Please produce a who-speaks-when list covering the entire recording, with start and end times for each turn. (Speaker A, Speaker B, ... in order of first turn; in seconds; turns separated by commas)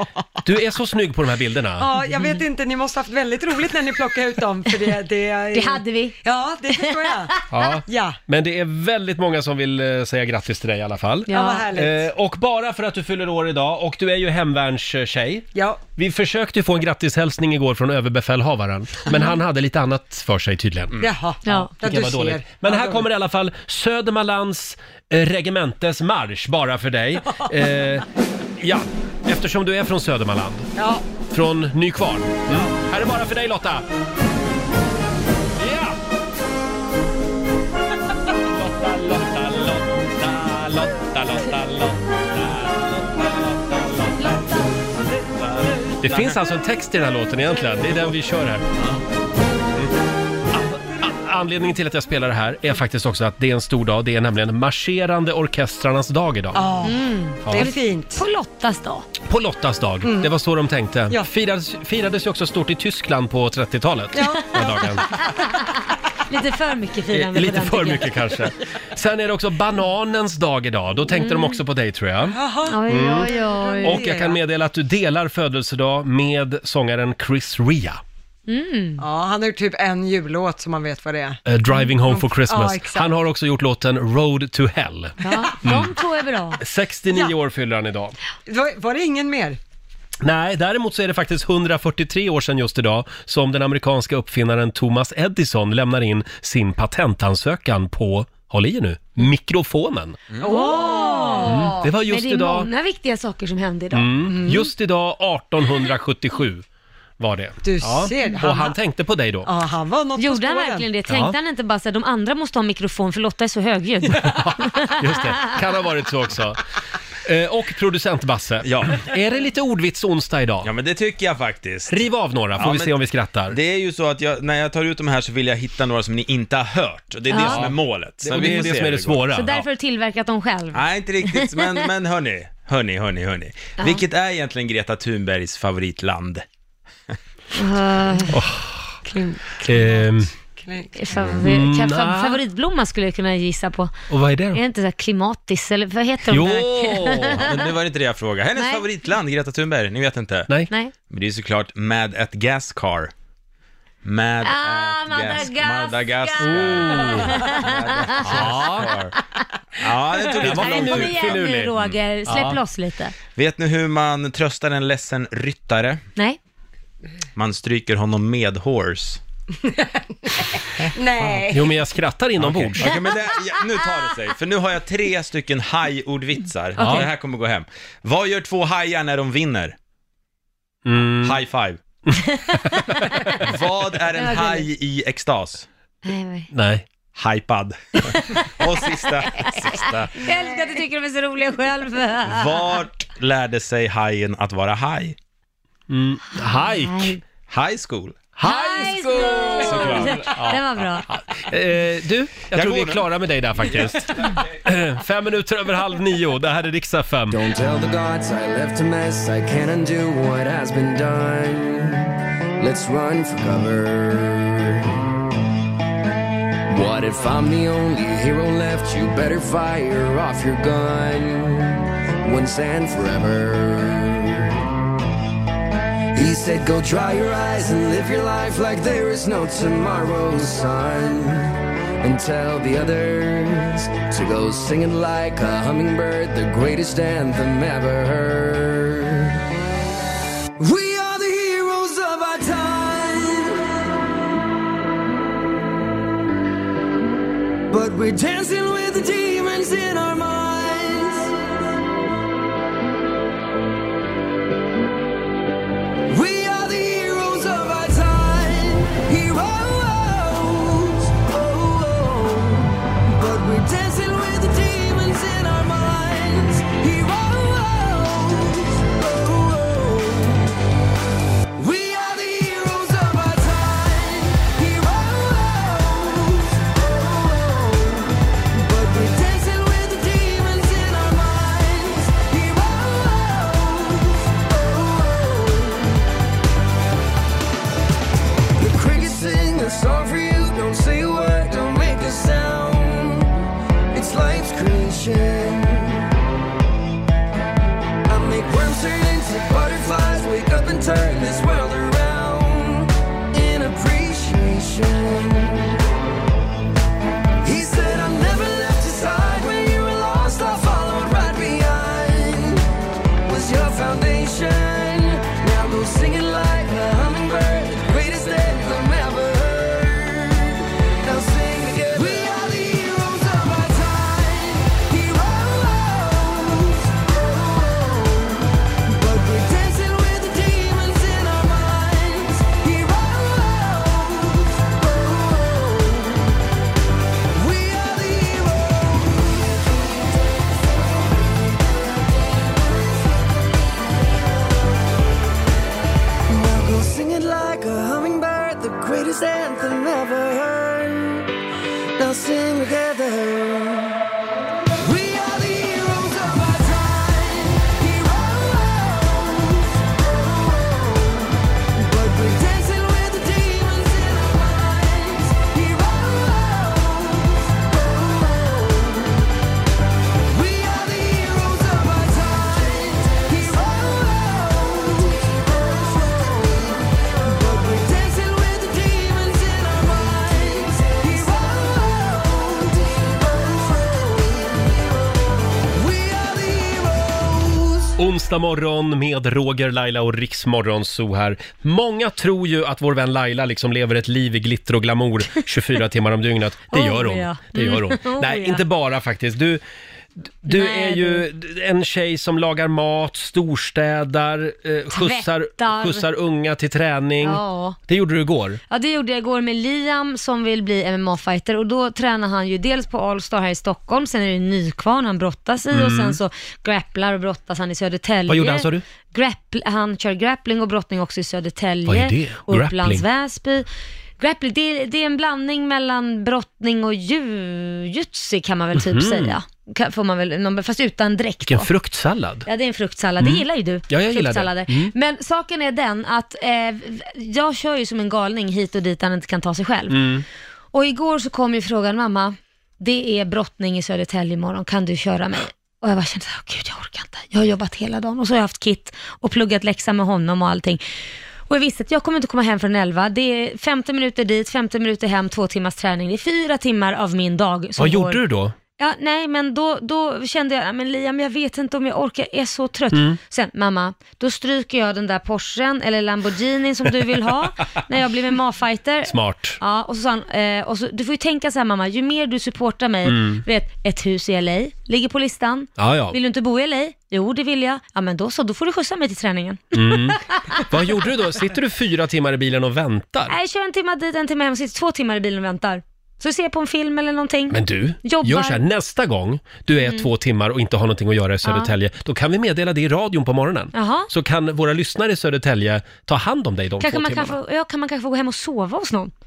Speaker A: 0.4-1.9, Speaker B: 1.8-8.2, Speaker C: 5.5-6.2, Speaker A: 7.5-21.0, Speaker C: 11.3-11.7, Speaker B: 11.3-12.1, Speaker B: 15.6-15.8, Speaker B: 21.0-23.1, Speaker C: 21.4-21.7, Speaker A: 21.8-28.1, Speaker A: 28.6-30.7, Speaker B: 30.8-31.0, Speaker A: 31.3-33.9, Speaker A: 35.6-35.9, Speaker A: 38.8-39.6, Speaker D: 41.0-41.5, Speaker C: 44.2-44.5, Speaker D: 45.6-46.3, Speaker A: 46.0-48.6, Speaker A: 50.9-56.6, Speaker B: 56.5-58.2, Speaker C: 56.8-59.1, Speaker A: 57.4-57.7, Speaker A: 59.3-65.1, Speaker B: 60.0-60.3, Speaker B: 64.1-64.8, Speaker C: 66.3-68.2, Speaker A: 67.1-73.3, Speaker C: 71.1-71.6, Speaker B: 72.3-74.4, Speaker C: 72.7-74.0, Speaker A: 73.8-78.0, Speaker C: 78.5-79.0, Speaker B: 79.0-81.4, Speaker A: 81.5-85.9, Speaker B: 82.0-83.1, Speaker B: 85.2-85.6, Speaker C: 85.2-86.6, Speaker A: 86.6-88.2, Speaker B: 88.5-89.6, Speaker A: 90.2-100.2, Speaker B: 100.4-101.8, Speaker C: 100.4-104.7, Speaker A: 101.4-102.7, Speaker A: 103.9-106.7, Speaker A: 107.2-109.5, Speaker B: 107.6-108.8, Speaker B: 109.5-110.9, Speaker C: 110.2-115.0, Speaker A: 111.1-111.3, Speaker A: 114.1-116.6, Speaker A: 117.2-120.7, Speaker D: 118.6-119.0, Speaker D: 120.6-122.0, Speaker A: 121.9-123.6, Speaker D: 122.6-123.0, Speaker D: 123.5-129.2, Speaker C: 127.3-127.7, Speaker A: 127.4-129.6, Speaker C: 129.3-131.4, Speaker D: 130.7-136.4, Speaker C: 137.6-138.4, Speaker A: 138.3-139.0, Speaker B: 139.1-141.2, Speaker A: 139.6-140.3, Speaker C: 141.0-143.9, Speaker A: 141.3-142.4, Speaker A: 144.1-144.6, Speaker C: 144.5-147.7, Speaker A: 146.3-147.5, Speaker D: 147.4-150.5, Speaker C: 148.6-148.8, Speaker D: 151.1-153.1, Speaker D: 154.1-159.2, Speaker C: 154.4-158.2, Speaker A: 156.4-157.4, Speaker A: 158.2-158.9, Speaker D: 159.8-162.0, Speaker C: 160.3-163.2, Speaker A: 160.4-161.7, Speaker A: 162.3-162.6, Speaker D: 163.3-166.0, Speaker D: 167.4-169.2, Speaker B: 169.6-171.7, Speaker A: 171.5-172.9, Speaker D: 172.4-179.8, Speaker A: 176.8-177.1, Speaker A: 180.9-181.4, Speaker D: 181.2-181.8, Speaker A: 182.1-183.3, Speaker D: 183.3-185.7, Speaker C: 184.2-184.7, Speaker C: 186.1-186.5, Speaker A: 186.5-186.8, Speaker D: 187.2-190.3, Speaker C: 188.1-188.4, Speaker C: 189.3-192.8, Speaker D: 192.3-195.2, Speaker A: 195.9-197.2, Speaker C: 196.3-197.2, Speaker D: 197.5-198.3, Speaker A: 198.4-207.4, Speaker C: 198.4-201.1, Speaker D: 199.5-200.2, Speaker D: 202.5-204.0, Speaker E: 207.3-214.8, Speaker E: 216.7-224.5, Speaker E: 226.1-239.4, Speaker E: 240.6-244.0, Speaker E: 247.7-251.6, Speaker E: 256.1-270.5, Speaker E: 271.6-286.1, Speaker E: 288.6-296.1, Speaker E: 298.1-305.8, Speaker E: 307.4-312.7, Speaker E: 313.2-336.4, Speaker E: 337.3-340.2, Speaker E: 346.3-351.3, Speaker E: 352.0-354.0, Speaker E: 354.8-369.3, Speaker E: 370.3-388.0, Speaker A: 388.0-399.6, Speaker C: 396.7-398.6, Speaker A: 400.4-408.6, Speaker C: 400.5-401.3, Speaker C: 404.9-406.0, Speaker C: 407.2-407.8, Speaker C: 408.7-423.7, Speaker A: 415.7-416.2, Speaker A: 418.3-418.8, Speaker A: 421.9-423.1, Speaker C: 424.2-431.7, Speaker A: 428.8-429.3, Speaker A: 431.5-432.5, Speaker C: 432.5-440.0, Speaker A: 433.2-434.9, Speaker A: 439.9-440.2, Speaker C: 440.7-450.8, Speaker C: 451.5-458.2, Speaker A: 457.8-458.6, Speaker C: 458.8-480.6, Speaker A: 462.9-463.2, Speaker A: 469.1-469.6, Speaker A: 473.1-473.4, Speaker A: 475.8-476.2, Speaker A: 479.7-483.3, Speaker C: 483.3-488.6, Speaker A: 487.5-497.4, Speaker C: 489.8-490.1, Speaker C: 491.4-491.7, Speaker C: 493.7-494.1, Speaker C: 496.8-499.1